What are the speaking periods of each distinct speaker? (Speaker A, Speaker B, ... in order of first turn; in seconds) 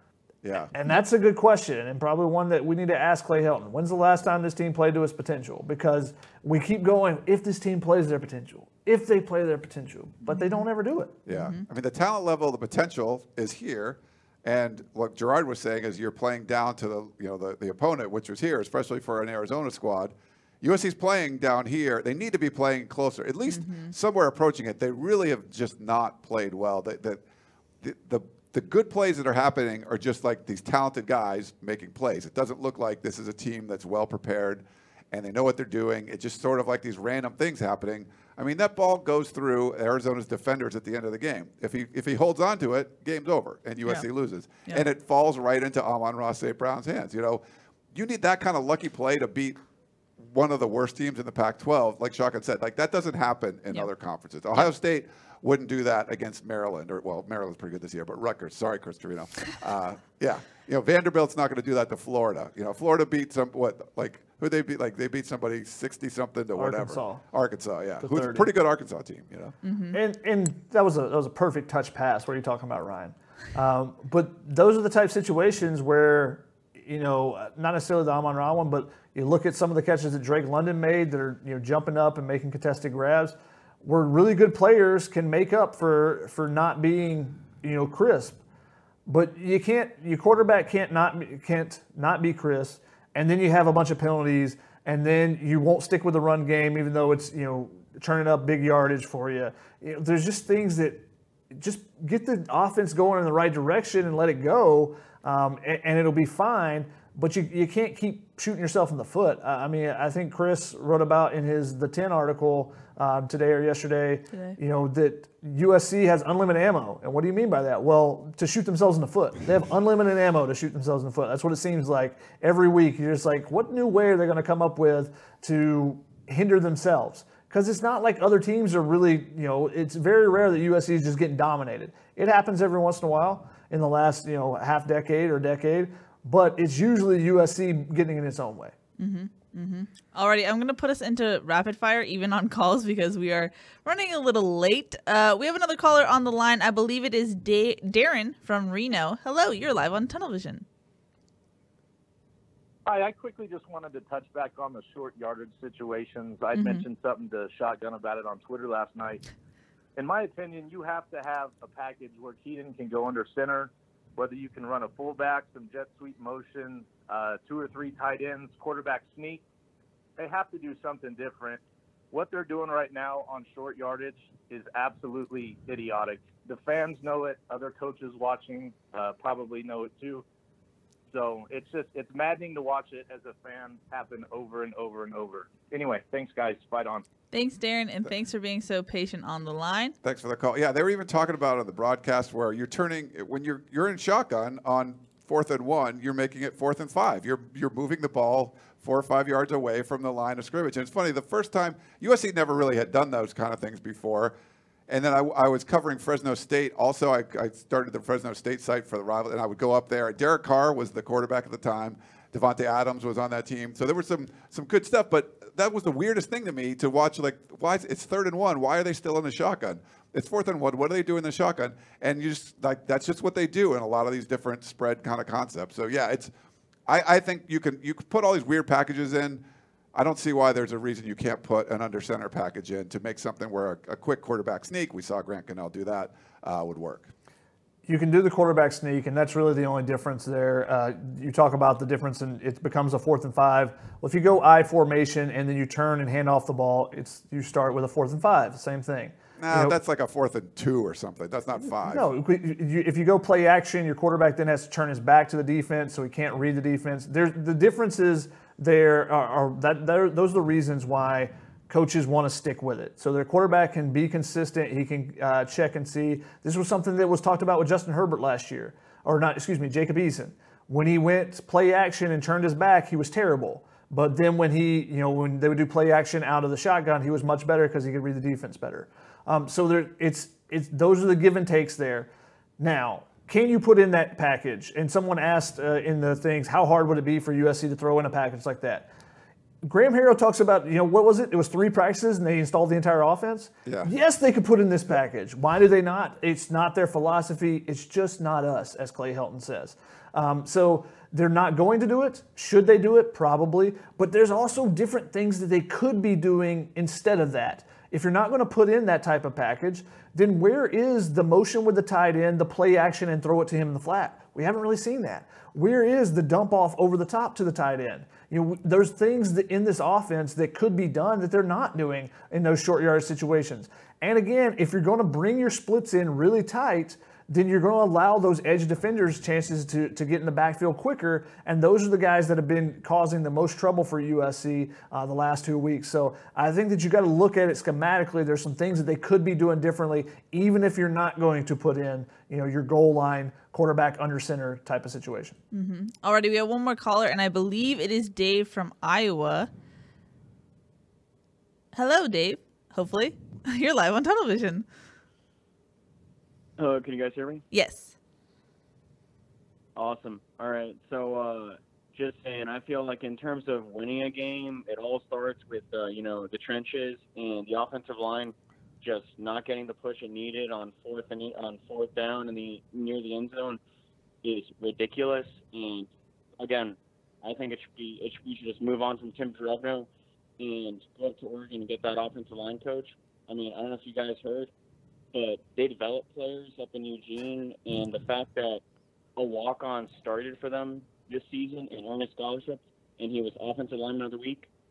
Speaker A: 0.4-0.7, 11.3-27.2, 27.8-47.4, 47.9-49.6, 50.2-69.5, 190.0-204.3, 204.9-226.3, 226.9-229.4, 229.9-237.1, 249.4-252.1, 293.6-293.9
Speaker B: 0.7-11.2, 66.5-67.2, 68.0-68.5, 69.9-88.4, 89.1-138.7, 237.9-249.8, 251.8-288.9, 289.6-345.4
Speaker C: 10.3-10.6, 11.3-11.6, 23.5-23.9, 69.6-70.0, 139.0-150.6, 156.5-156.8, 187.3-189.9, 345.5-349.5, 351.7-354.6, 357.5-357.9
Speaker D: 152.8-159.2, 159.9-169.4, 170.2-180.2, 181.1-187.0
Speaker E: 356.6-357.4, 359.8-373.6, 374.2-379.9, 380.4-384.5, 385.1-388.6, 389.1-394.5